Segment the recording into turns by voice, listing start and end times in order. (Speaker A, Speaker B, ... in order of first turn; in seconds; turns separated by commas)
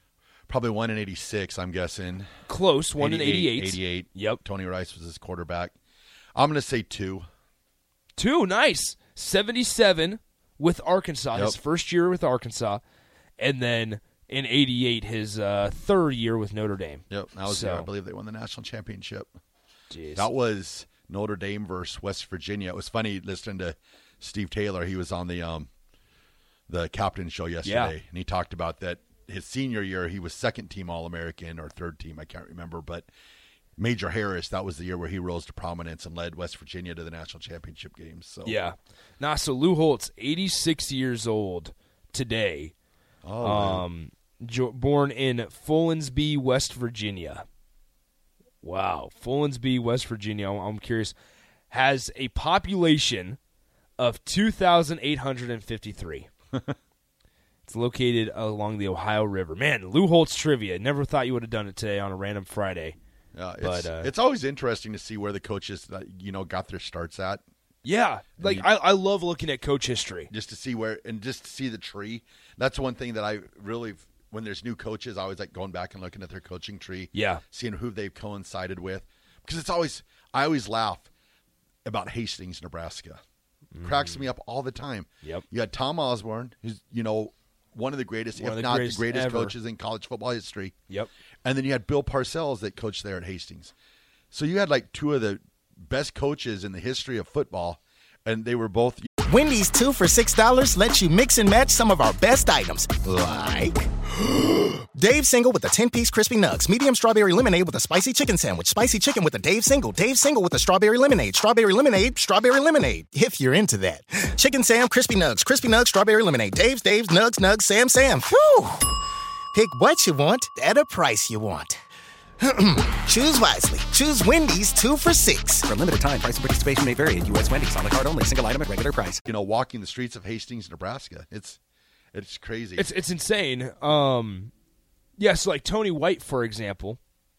Speaker A: 0.5-2.3, Speaker B: 2.5-4.4, Speaker A: 3.0-5.7, Speaker A: 6.3-7.2, Speaker B: 8.2-12.8, Speaker B: 13.4-17.9, Speaker A: 17.1-19.3, Speaker B: 19.9-20.2, Speaker A: 20.1-25.7, Speaker A: 26.7-33.1, Speaker B: 27.6-27.9, Speaker A: 33.8-38.6, Speaker B: 38.4-42.7, Speaker A: 43.2-43.8, Speaker B: 43.4-47.5, Speaker B: 48.6-51.1, Speaker B: 51.7-53.4, Speaker B: 54.0-56.3, Speaker B: 57.7-63.0, Speaker A: 63.3-67.4, Speaker B: 63.6-64.1, Speaker B: 67.8-70.3, Speaker A: 68.4-68.7, Speaker A: 70.3-81.1, Speaker B: 77.1-77.4, Speaker A: 81.8-83.2, Speaker B: 83.7-84.2, Speaker A: 83.8-90.7, Speaker B: 88.4-89.5, Speaker A: 91.4-93.7, Speaker A: 94.3-99.1, Speaker C: 99.2-103.9, Speaker C: 104.4-119.0, Speaker C: 119.5-121.8, Speaker C: 122.4-125.7, Speaker D: 125.7-129.2, Speaker A: 129.2-131.6, Speaker A: 132.1-132.9, Speaker B: 132.8-134.5, Speaker B: 135.2-137.0